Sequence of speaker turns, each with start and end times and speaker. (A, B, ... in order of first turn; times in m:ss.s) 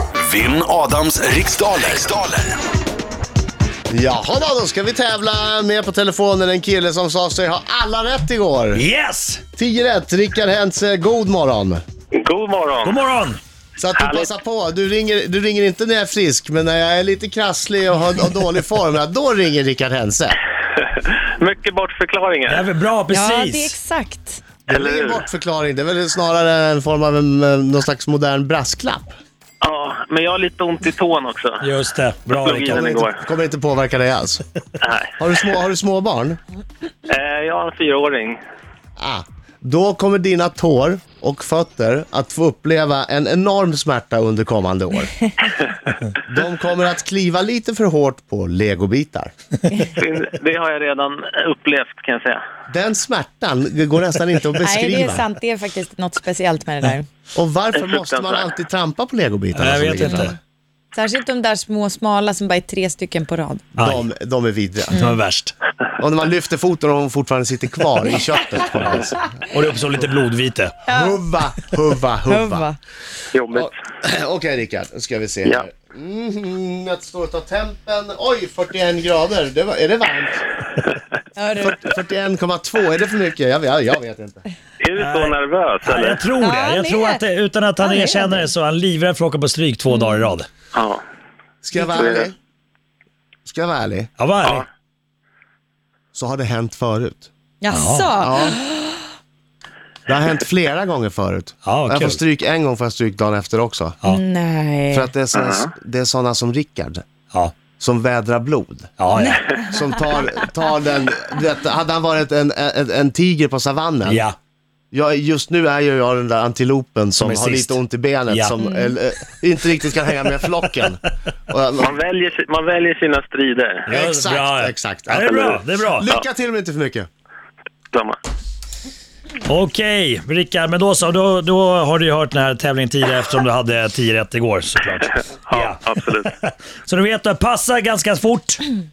0:00.2-0:02.6 A
0:03.9-0:08.8 B
0:08.7-0:09.4 C
0:09.6-0:11.8 B
0:12.2-0:13.0 D
0:12.8-0:13.4 C
0:13.8-0:20.4 B
0:13.8-0:14.3 D
0:20.8-0:22.6 D
0:22.5-0:23.8 C
0:23.1-0:24.4 E
0:24.7-0:29.1 B
0:24.7-0:25.2 D
0:29.6-0:31.7 D
0:31.6-0:32.8 C
0:32.3-0:33.2 D
0:32.7-0:34.4 B
0:34.8-0:35.1 D
0:35.2-0:36.4 B
0:37.1-0:38.4 D
0:39.0-0:45.3 B
0:46.2-0:49.3 B
0:49.8-0:52.4 D
0:52.7-0:55.2 B
0:54.6-0:57.1 E
0:57.4-1:00.3 B
0:57.8-0:58.5 D
0:59.6-1:00.4 C
1:00.9-1:03.7 E
1:03.8-1:04.0 C
1:03.8-1:04.9 B
1:04.9-1:05.5 C
1:04.9-1:05.2 E
1:06.0-1:09.3 B
1:09.5-1:10.8 C
1:10.9-1:11.2 E
1:10.9-1:12.7 B
1:12.3-1:12.8 E
1:13.3-1:13.7 D
1:13.5-1:20.6 B
1:21.4-1:21.8 E
1:21.6-1:24.4 B
1:24.8-1:26.2 D
1:25.0-1:30.5 C
1:26.4-1:27.2 E
1:27.8-1:28.5 E
1:29.9-1:30.3 E
1:30.7-1:31.0 D
1:31.6-1:32.4 B
1:31.8-1:32.3 D
1:33.5-1:34.1 B
1:34.2-1:34.7 C
1:36.1-1:37.3 B
1:37.6-1:39.0 E
1:37.7-1:38.1 C
1:38.2-1:38.6 B
1:40.1-1:44.0 B
1:41.6-1:42.2 C
1:44.0-1:45.1 E
1:44.9-1:47.1 B
1:45.3-1:45.7 D
1:47.3-1:47.6 C
1:47.7-1:48.9 B
1:49.0-1:49.4 C
1:49.2-1:50.2 E
1:49.7-1:54.2 B
1:54.0-1:54.3 C
1:54.9-2:02.0 B
1:57.2-1:57.8 C
1:58.6-1:58.9 E
2:01.8-2:03.9 D
2:03.9-2:06.1 C
2:03.9-2:07.1 B
2:07.9-2:08.2 D
2:09.5-2:18.7 C
2:15.5-2:16.3 D